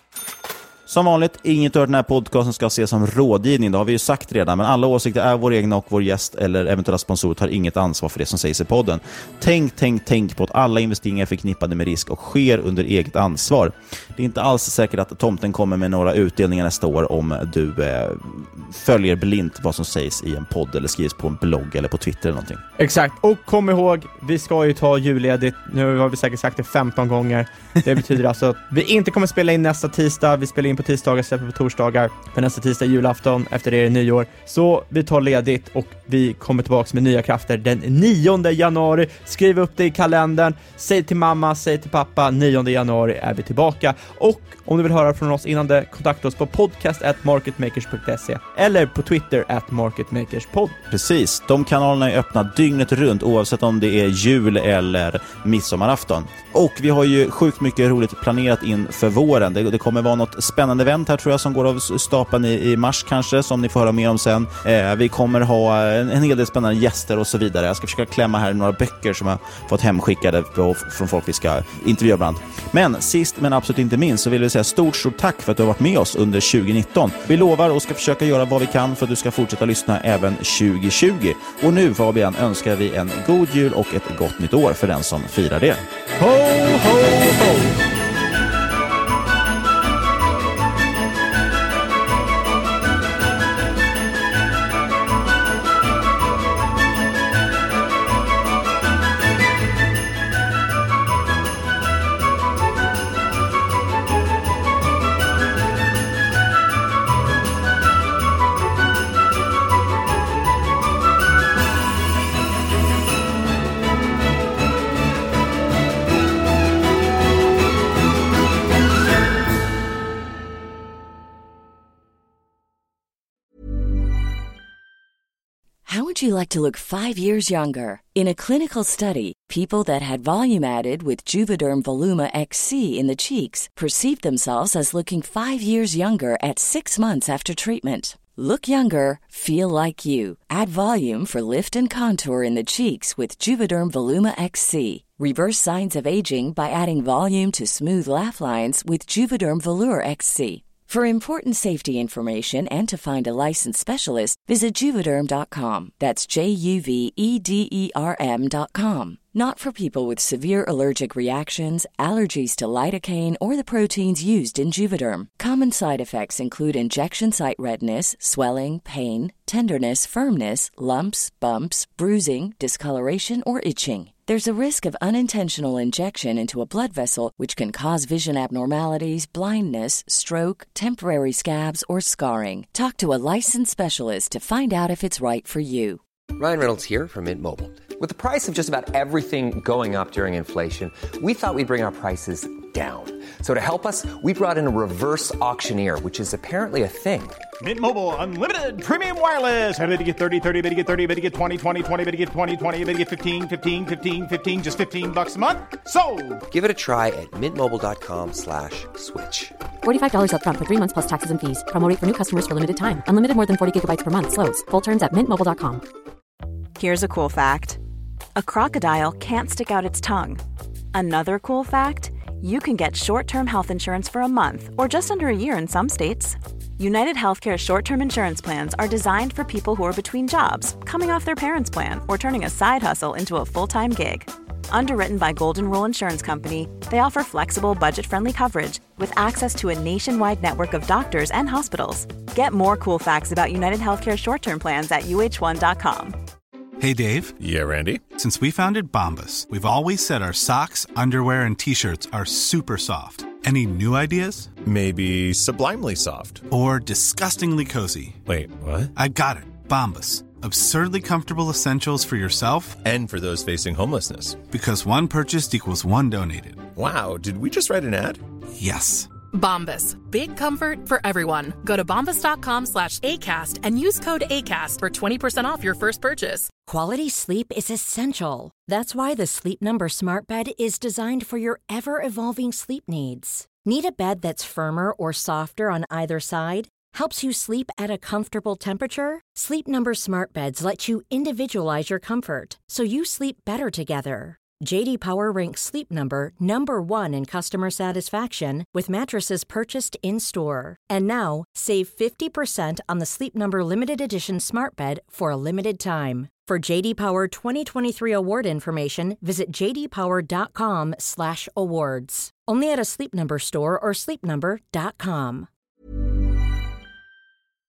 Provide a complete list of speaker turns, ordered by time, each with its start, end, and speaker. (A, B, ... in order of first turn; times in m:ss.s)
0:00.9-0:22.6 A
0:22.8-0:50.8 B
0:50.9-1:25.8 A
1:26.2-1:27.5 B
2:05.8-3:06.0 C
3:06.4-3:17.4 D
3:17.6-3:26.4 E
3:26.5-3:29.5 D
3:29.8-3:35.8 F
3:36.8-3:37.8 G
3:38.4-3:40.4 G
3:40.9-4:06.2 G
4:06.8-4:07.4 H
4:07.4-4:07.9 I
4:08.1-4:14.5 H
4:14.7-4:16.3 I
4:16.5-4:18.2 H
4:18.9-4:22.8 H
4:23.1-4:24.2 I
4:24.4-4:26.7 H
4:28.6-4:29.1 H
4:29.3-4:36.5 J
4:36.6-5:15.5 K